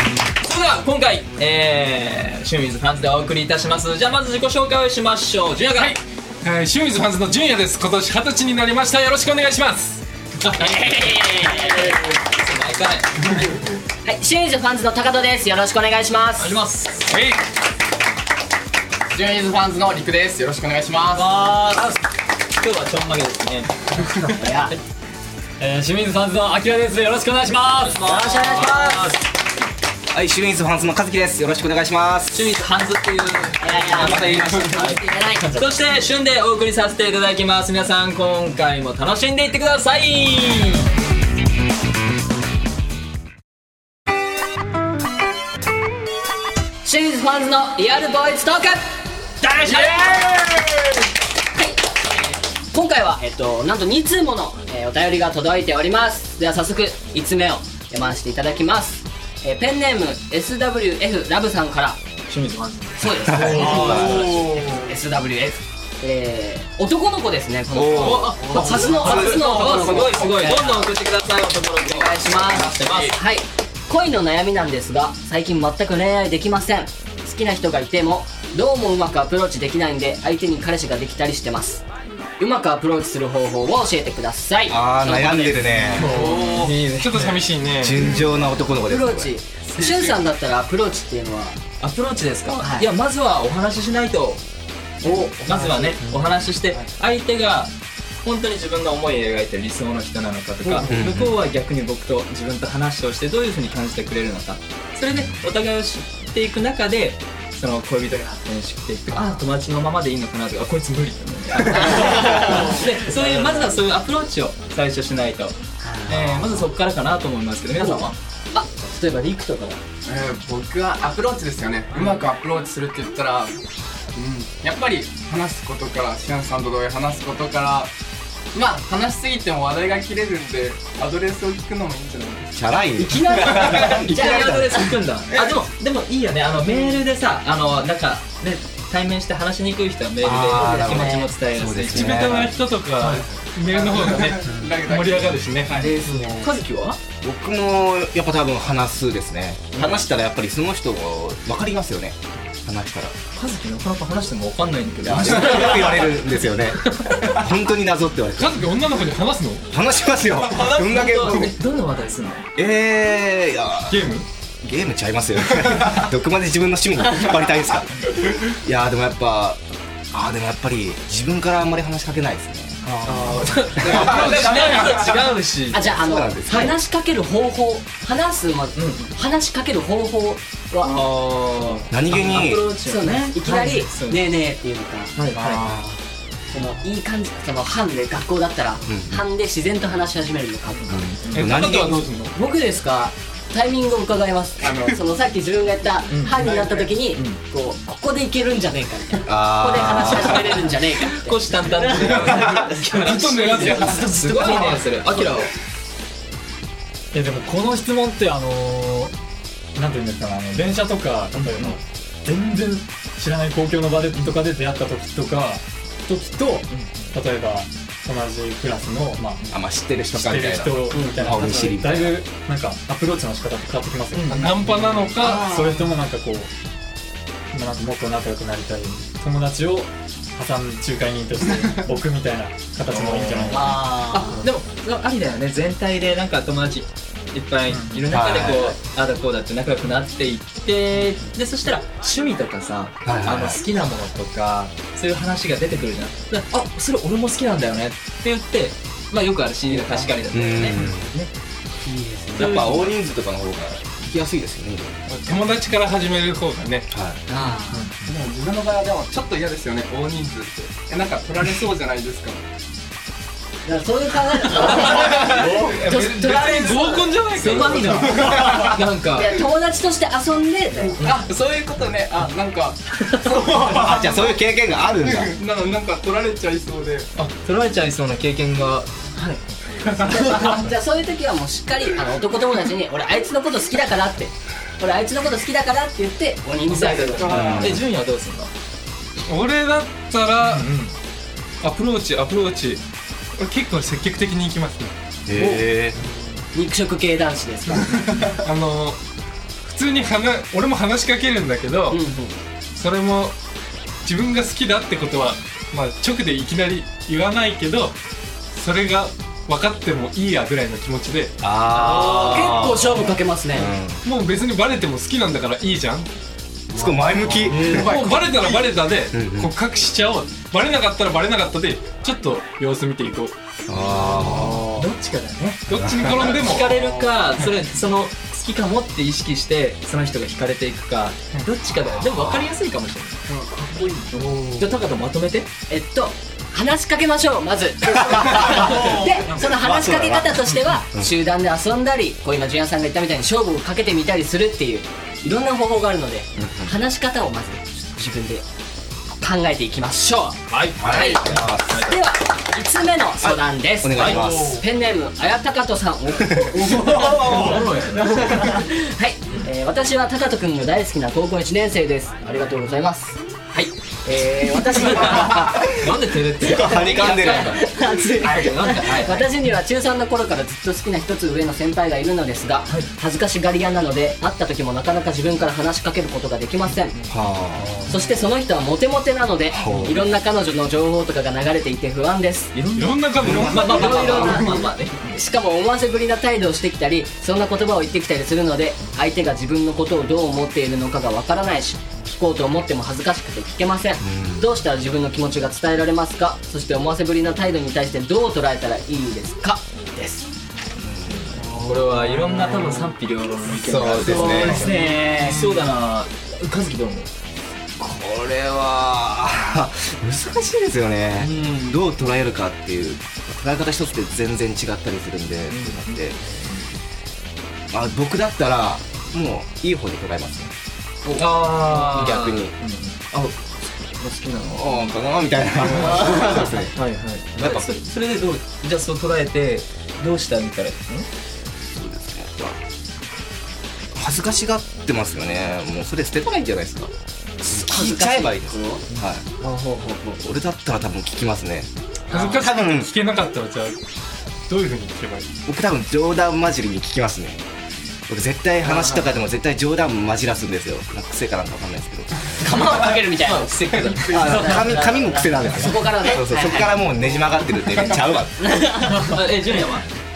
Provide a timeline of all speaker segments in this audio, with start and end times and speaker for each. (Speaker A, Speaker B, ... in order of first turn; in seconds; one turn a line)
Speaker A: 0.4-6.0
Speaker B: 5.8-10.6
Speaker C: 10.5-12.1
Speaker A: 11.4-13.3
Speaker C: 14.0-16.6
Speaker A: 16.4-17.1
Speaker B: 17.1-17.4
Speaker D: 19.1-21.3
Speaker A: 21.1-22.0
Speaker A: 22.6-23.7
Speaker C: 24.3-24.8
Speaker E: 25.6-28.1
Speaker A: 27.8-29.1
Speaker C: 28.1-29.0
Speaker E: 28.8-29.1
Speaker F: 30.1-32.5
Speaker A: 32.3-40.9
Speaker C: 33.6-35.5
Speaker E: 35.4-35.7
Speaker C: 46.8-48.9
Speaker C: 49.6-50.4
Speaker A: 49.7-50.0
Speaker B: 50.1-50.5
Speaker C: 51.6-52.1
Speaker C: 52.7-62.0
Speaker A: 62.3-64.0
Speaker C: 63.0-70.9
Speaker F: 63.2-64.4
Speaker D: 63.6-64.9
Speaker F: 67.7-68.5
Speaker A: 68.0-73.2
Speaker D: 68.5-70.3
Speaker F: 69.0-69.3
Speaker C: 71.8-81.8
Speaker D: 72.5-73.0
Speaker C: 82.4-85.4
Speaker F: 84.7-86.2
Speaker A: 85.0-87.2
Speaker E: 86.0-86.6
Speaker C: 86.0-86.3
Speaker D: 86.2-86.7
Speaker B: 86.4-88.1
Speaker F: 87.8-89.3
Speaker C: 88.0-88.3
Speaker C: 88.8-91.6
Speaker D: 89.8-90.1
Speaker A: 91.8-94.4
Speaker C: 92.5-92.9
Speaker A: 95.0-97.7
Speaker C: 95.0-96.0
Speaker E: 96.0-96.5
Speaker A: 98.2-115.5
Speaker F: 100.8-101.4
Speaker F: 105.1-105.5
Speaker C: 109.1-109.4
Speaker C: 111.8-113.8
Speaker C: 115.8-116.7
Speaker A: 116.0-118.2
Speaker C: 117.7-119.8
Speaker D: 120.0-123.6
Speaker A: 121.9-122.2
Speaker D: 124.2-127.9
Speaker D: 128.5-132.6
Speaker F: 132.6-134.8
Speaker C: 133.0-134.8
Speaker D: 133.6-134.0
Speaker A: 133.8-142.4
Speaker F: 140.2-142.5
Speaker C: 140.5-141.3
Speaker B: 141.9-145.9
Speaker D: 143.6-145.9
Speaker E: 144.4-144.8
Speaker C: 145.7-146.5
Speaker A: 146.4-147.0
Speaker F: 147.2-153.1
Speaker A: 149.7-150.0
Speaker A: 153.3-156.1
Speaker F: 155.0-158.7
Speaker A: 157.0-157.3
Speaker B: 158.4-159.7
Speaker F: 159.7-161.5
Speaker B: 160.4-161.1
Speaker A: 160.8-162.5
Speaker F: 162.6-164.0
Speaker B: 163.9-164.2
Speaker F: 164.6-174.8
Speaker A: 172.8-175.9
Speaker B: 173.8-175.0
Speaker C: 175.7-181.0
Speaker F: 176.0-176.8
Speaker A: 178.8-179.2
Speaker A: 180.8-184.3
Speaker F: 181.9-182.7
Speaker C: 182.8-202.9
Speaker A: 185.2-185.8
Speaker E: 185.3-185.8
Speaker F: 188.9-189.2
Speaker A: 190.8-191.5
Speaker F: 190.9-192.0
Speaker B: 191.3-192.3
Speaker B: 194.6-194.9
Speaker A: 196.1-196.5
Speaker B: 196.4-196.7
Speaker A: 197.1-197.4
Speaker F: 199.3-200.6
Speaker A: 199.8-205.5
Speaker B: 202.3-204.1
Speaker C: 203.7-204.7
Speaker E: 207.1-209.1
Speaker E: 209.8-219.5
Speaker A: 211.3-211.8
Speaker A: 214.1-214.4
Speaker A: 216.7-217.2
Speaker F: 219.5-222.2
Speaker E: 220.1-226.5
Speaker C: 220.9-221.3
Speaker A: 224.1-225.0
Speaker B: 224.3-225.5
Speaker C: 225.2-225.9
Speaker E: 227.5-233.8
Speaker A: 232.9-251.3
Speaker C: 233.5-234.4
Speaker E: 237.7-238.1
Speaker F: 238.1-238.8
Speaker F: 243.0-243.6
Speaker D: 249.8-250.1
Speaker F: 250.3-251.1
Speaker C: 251.8-252.7
Speaker F: 252.3-254.9
Speaker A: 252.3-252.9
Speaker B: 255.1-256.9
Speaker F: 256.9-257.2
Speaker C: 257.3-257.9
Speaker E: 257.7-258.1
Speaker D: 258.1-262.4
Speaker C: 263.6-271.1
Speaker B: 264.4-268.8
Speaker A: 267.4-269.4
Speaker D: 271.0-274.4
Speaker B: 273.3-273.7
Speaker F: 273.6-275.4
Speaker D: 275.2-277.1
Speaker A: 277.2-280.5
Speaker C: 280.1-287.6
Speaker A: 286.7-288.5
Speaker F: 287.3-287.8
Speaker B: 289.3-290.7
Speaker A: 290.4-290.9
Speaker B: 291.6-292.8
Speaker B: 293.4-294.9
Speaker F: 295.3-296.0
Speaker C: 295.3-295.7
Speaker C: 296.5-298.3
Speaker B: 298.1-299.0
Speaker B: 299.6-302.0
Speaker C: 301.9-302.3
Speaker B: 302.8-303.4
Speaker B: 304.1-308.0
Speaker B: 308.5-311.4
Speaker F: 311.4-314.0
Speaker C: 311.7-313.7
Speaker B: 314.0-316.1
Speaker F: 316.7-317.9
Speaker B: 316.8-323.3
Speaker D: 316.8-318.7
Speaker C: 317.5-318.0
Speaker F: 319.1-319.5
Speaker F: 323.7-324.6
Speaker A: 324.0-325.7
Speaker E: 324.1-324.9
Speaker B: 325.7-326.7
Speaker F: 325.8-326.4
Speaker A: 326.2-333.2
Speaker D: 326.6-327.1
Speaker F: 332.0-332.4
Speaker D: 333.3-334.2
Speaker A: 334.1-335.5
Speaker E: 334.2-334.6
Speaker C: 335.7-348.4
Speaker E: 338.7-339.6
Speaker F: 339.6-341.1
Speaker F: 346.4-346.7
Speaker C: 349.2-365.7
Speaker A: 350.5-352.0
Speaker F: 350.8-351.8
Speaker F: 353.2-354.6
Speaker A: 354.0-354.6
Speaker F: 356.2-356.6
Speaker A: 356.8-358.6
Speaker A: 364.8-369.3
Speaker F: 366.4-367.6
Speaker C: 366.5-377.0
Speaker A: 376.7-377.1
Speaker F: 377.1-377.8
Speaker E: 377.6-378.0
Speaker C: 377.9-382.5
Speaker F: 379.5-380.0
Speaker A: 379.7-380.0
Speaker A: 382.5-385.2
Speaker B: 382.8-384.5
Speaker C: 383.2-400.3
Speaker D: 383.3-384.6
Speaker F: 394.0-394.5
Speaker F: 400.8-401.5
Speaker A: 401.4-407.1
Speaker F: 403.5-404.7
Speaker C: 404.1-405.3
Speaker B: 405.1-405.4
Speaker F: 407.8-416.2
Speaker A: 411.2-411.8
Speaker A: 415.5-416.7
Speaker F: 417.7-420.5
Speaker A: 421.1-424.9
Speaker F: 421.6-422.5
Speaker F: 424.5-426.8
Speaker A: 425.6-431.1
Speaker C: 425.8-426.5
Speaker F: 427.4-427.7
Speaker F: 431.7-432.6
Speaker F: 433.9-436.9
Speaker C: 437.4-438.8
Speaker F: 437.5-439.3
Speaker C: 439.4-440.2
Speaker F: 440.2-441.7
Speaker B: 442.1-443.8
Speaker A: 442.1-442.4
Speaker F: 442.2-442.9
Speaker B: 444.5-445.4
Speaker F: 445.5-447.4
Speaker F: 448.1-452.2
Speaker A: 448.7-449.0
Speaker C: 452.4-453.5
Speaker A: 453.2-454.5
Speaker D: 453.8-454.3
Speaker C: 454.1-456.9
Speaker F: 454.1-458.4
Speaker C: 458.4-459.1
Speaker A: 458.9-459.9